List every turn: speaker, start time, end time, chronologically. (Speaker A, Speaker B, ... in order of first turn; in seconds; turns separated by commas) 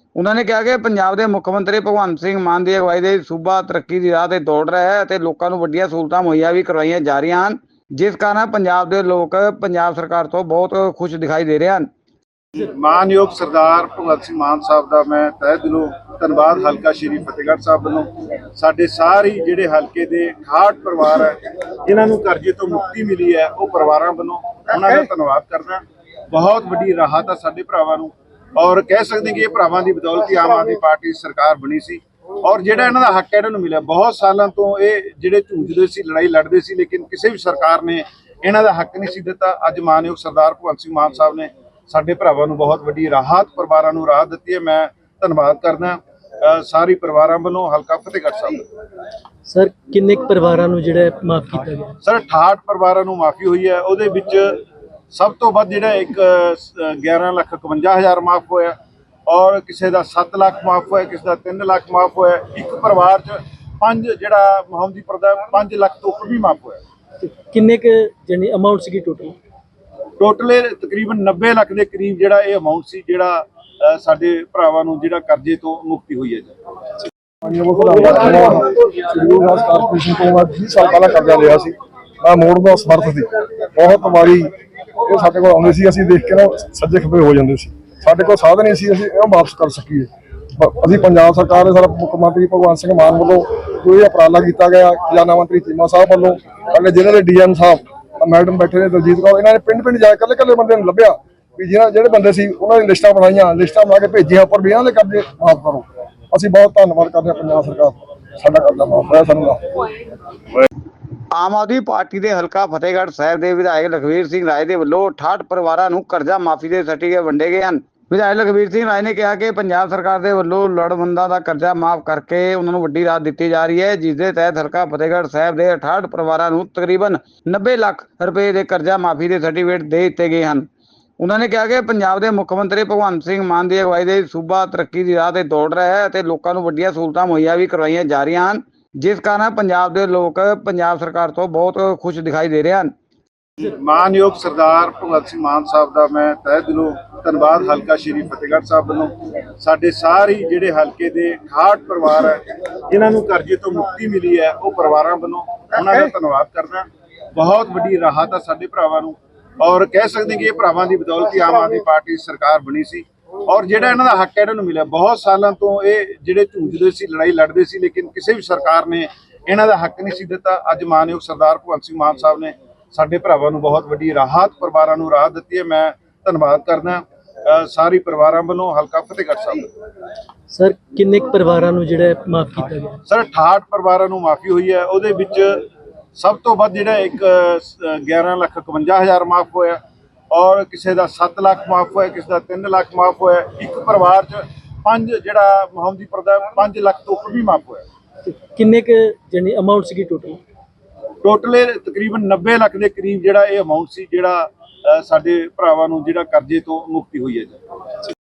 Speaker A: 0.2-11.9, Speaker B: 12.6-48.6, Speaker C: 49.5-51.9, Speaker B: 52.0-58.8, Speaker B: 59.3-66.8, Speaker C: 67.2-69.3, Speaker B: 70.2-76.5, Speaker D: 77.4-84.5, Speaker D: 85.0-109.6, Speaker A: 111.3-130.6, Speaker A: 131.2-142.9, Speaker B: 143.6-179.7, Speaker C: 180.5-183.0, Speaker B: 183.1-189.8, Speaker B: 190.3-197.8, Speaker C: 198.3-200.4, Speaker B: 201.2-207.6